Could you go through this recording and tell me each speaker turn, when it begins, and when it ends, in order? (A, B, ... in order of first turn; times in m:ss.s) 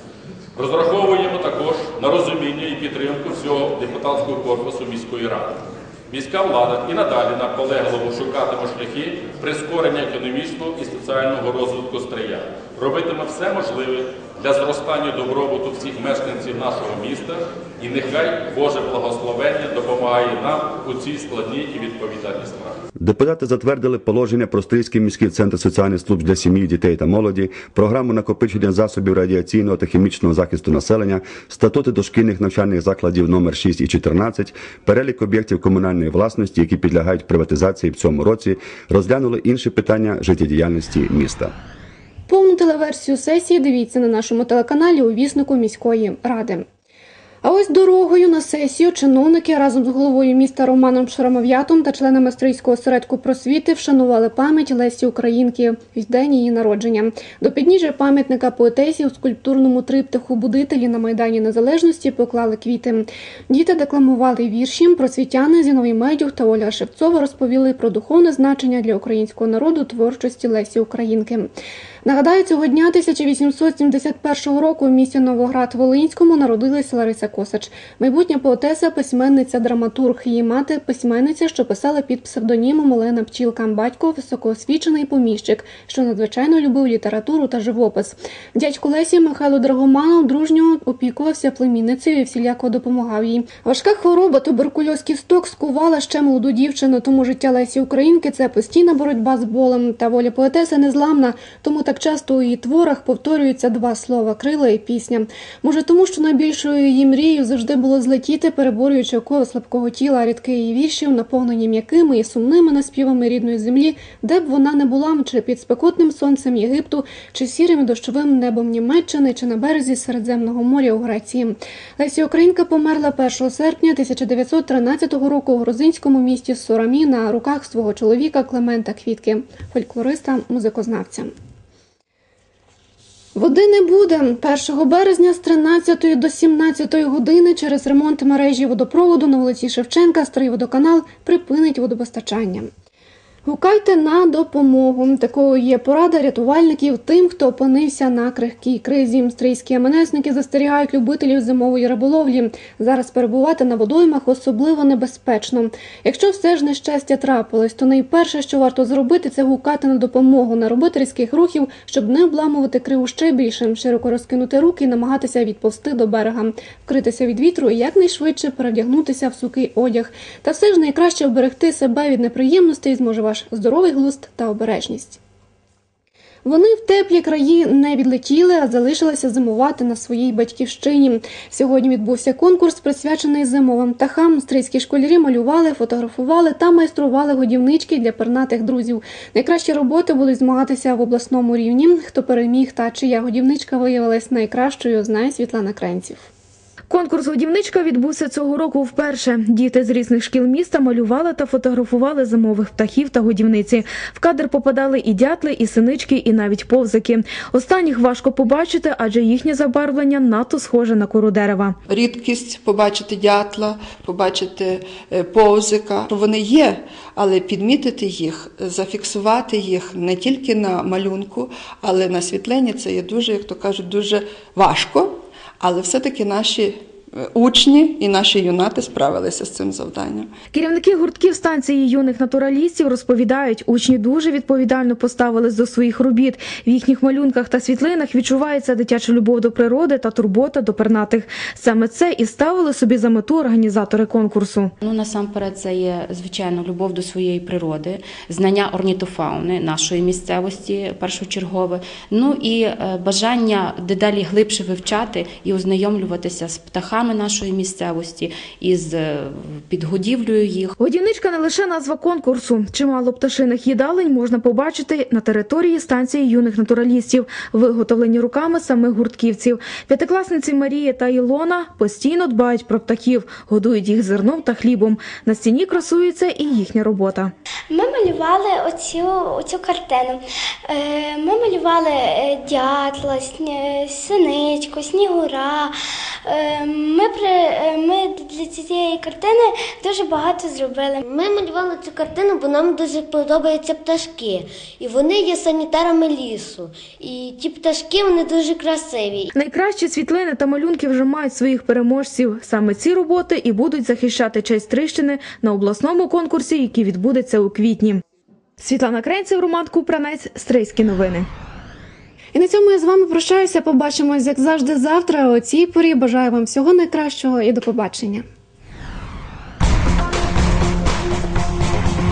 0:00.6-0:05.6 A
0:06.1-0:22.8 A
0:23.0-0:41.5 B
0:42.3-0:46.7 C
0:47.4-1:11.5 C
1:12.0-2:11.3 C
2:13.4-2:22.7 C
2:23.4-2:55.2 C
2:56.4-3:16.3 C
3:16.9-3:31.8 D
3:31.9-3:50.3 E
3:50.5-4:04.7 D
4:04.8-4:20.7 F
4:20.8-4:37.3 D
4:37.7-4:45.7 G
4:46.3-4:51.0 G
4:51.0-4:59.3 H
4:59.3-5:08.0 D
5:08.6-5:11.3 D
5:12.3-5:18.2 C